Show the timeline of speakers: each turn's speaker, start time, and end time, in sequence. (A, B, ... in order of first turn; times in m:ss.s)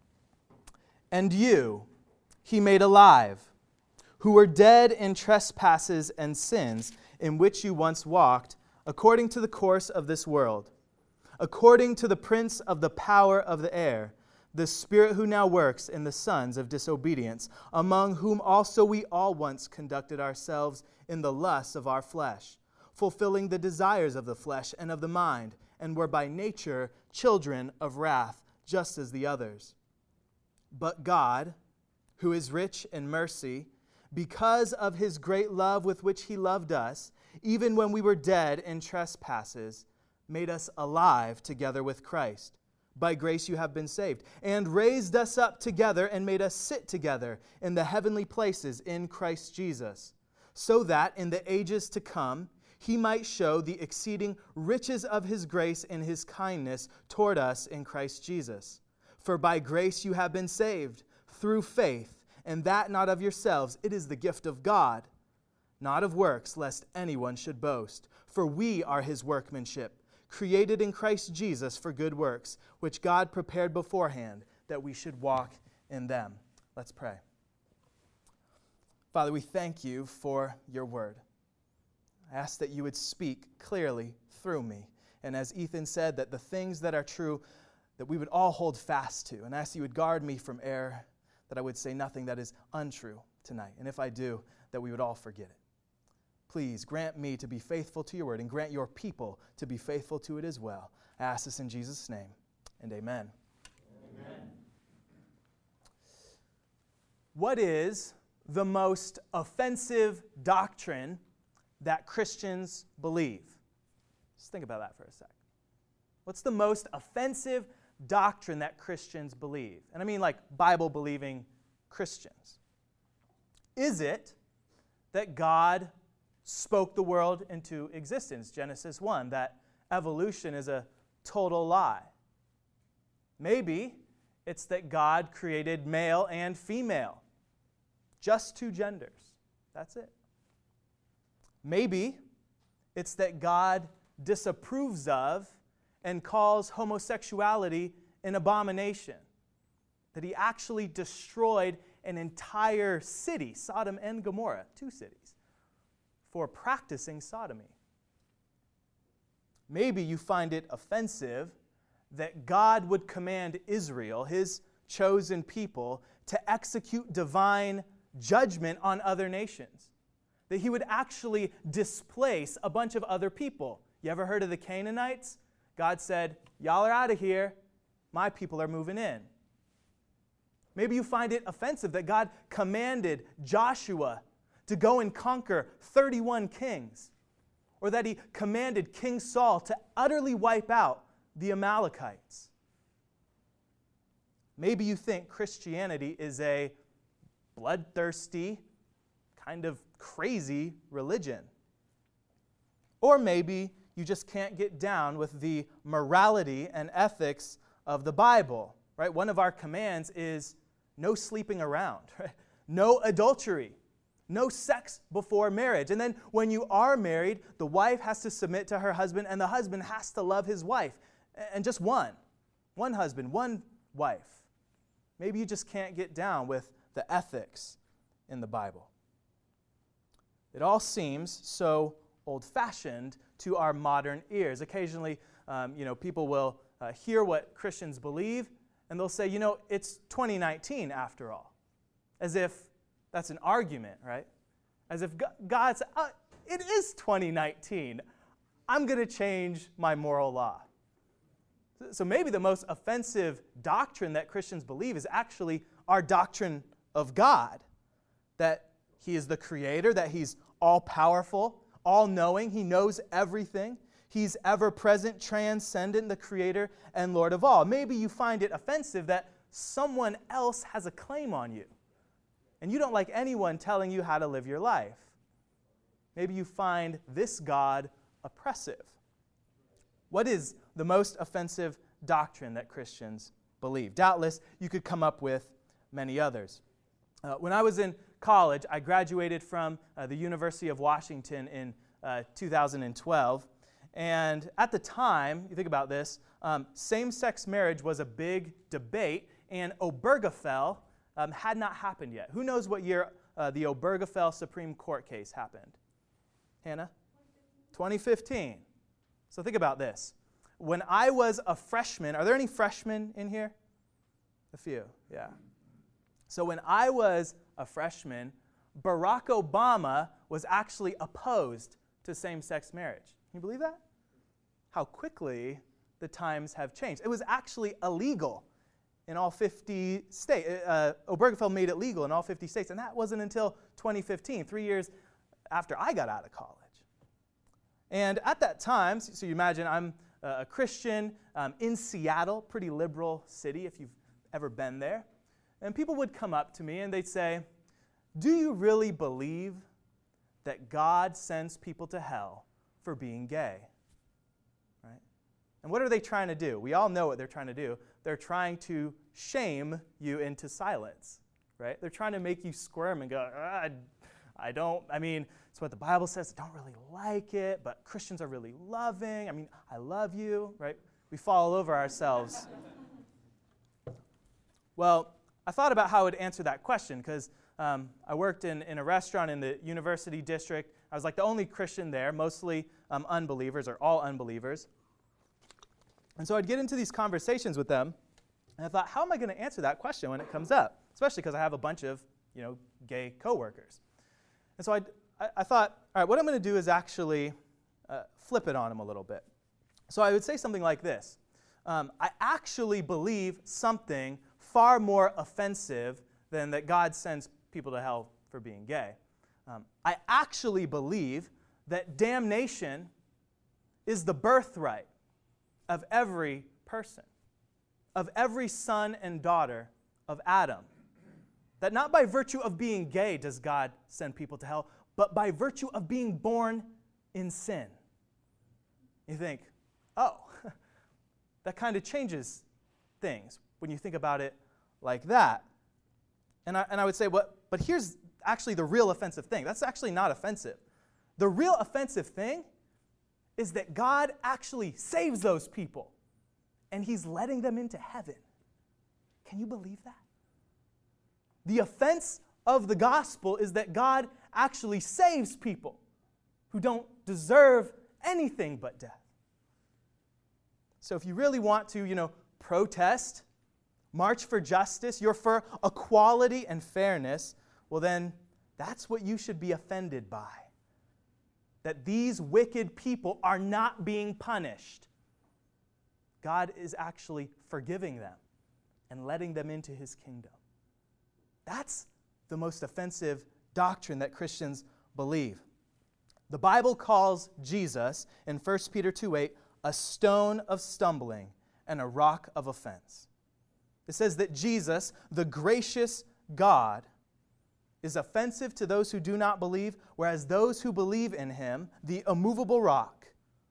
0:01.1-0:01.9 A
0:02.4-0:03.5 A
0:04.2-0:10.7 A
0:11.4-0:29.7 A
0:30.7-0:31.6 A
0:32.2-1:05.1 A
1:05.8-1:17.2 A
1:19.1-1:21.2 A
1:22.3-1:27.4 A
1:28.0-1:35.6 A
1:36.5-1:43.3 A
1:47.3-1:51.2 A
1:51.8-1:53.6 A
1:54.4-1:55.3 A
1:56.2-2:02.6 A
2:03.8-2:04.4 A
2:05.1-2:05.9 A
2:06.4-2:12.1 A
2:13.4-2:17.2 A
2:18.2-2:20.1 A
2:21.6-2:22.2 A
2:22.9-2:29.2 A
2:30.1-2:35.4 A
2:36.2-2:37.8 A
2:39.7-2:41.6 A
2:42.1-2:49.9 A
2:50.5-2:57.6 A
2:58.1-2:59.3 A
3:00.8-3:07.1 A
3:07.8-3:12.5 A
3:14.6-3:16.8 A
3:17.5-3:18.6 A
3:19.3-3:21.5 A
3:23.0-3:33.8 A
3:34.3-3:42.2 A
3:42.8-3:44.5 A
3:45.2-3:48.9 A
3:50.5-4:01.5 A
4:02.2-4:04.3 A
4:04.9-4:08.0 A
4:08.7-4:10.7 A
4:11.8-4:17.6 A
4:18.4-4:31.7 A
4:32.6-4:35.1 A
4:36.1-4:39.0 A
4:40.1-4:46.6 A
4:47.2-5:05.8 A
5:06.6-5:06.9 A
5:07.7-5:08.6 A
5:09.3-5:13.6 A
5:14.5-5:15.4 A
5:16.3-5:23.8 A
5:24.7-5:28.4 A
5:29.1-5:34.9 A
5:35.5-5:36.8 A
5:37.9-5:45.1 A
5:45.6-5:47.4 A
5:48.1-5:49.6 A
5:50.4-5:53.7 A
5:55.6-6:03.9 A
6:04.4-6:12.5 A
6:14.8-6:24.7 A
6:26.2-6:28.0 A
6:28.6-6:33.8 A
6:34.6-6:37.3 A
6:37.9-6:39.3 A
6:39.9-6:52.9 A
6:53.9-6:54.9 A
6:55.7-6:57.1 A
6:57.9-7:00.7 A
7:01.6-7:07.8 A
7:09.1-7:10.5 A
7:11.4-7:12.4 A
7:13.0-7:15.5 A
7:16.4-7:20.6 A
7:21.2-7:22.5 A
7:23.4-7:25.9 A
7:26.7-7:28.2 A
7:29.2-7:30.0 A
7:31.4-7:35.8 A
7:36.5-7:39.0 A
7:40.8-7:43.2 A
7:43.9-7:50.5 A
7:51.6-7:54.9 A
7:56.2-7:58.2 A
7:58.9-8:00.4 A
8:01.4-8:05.4 A
8:06.3-8:13.1 A
8:13.9-8:16.9 A
8:17.8-8:23.1 A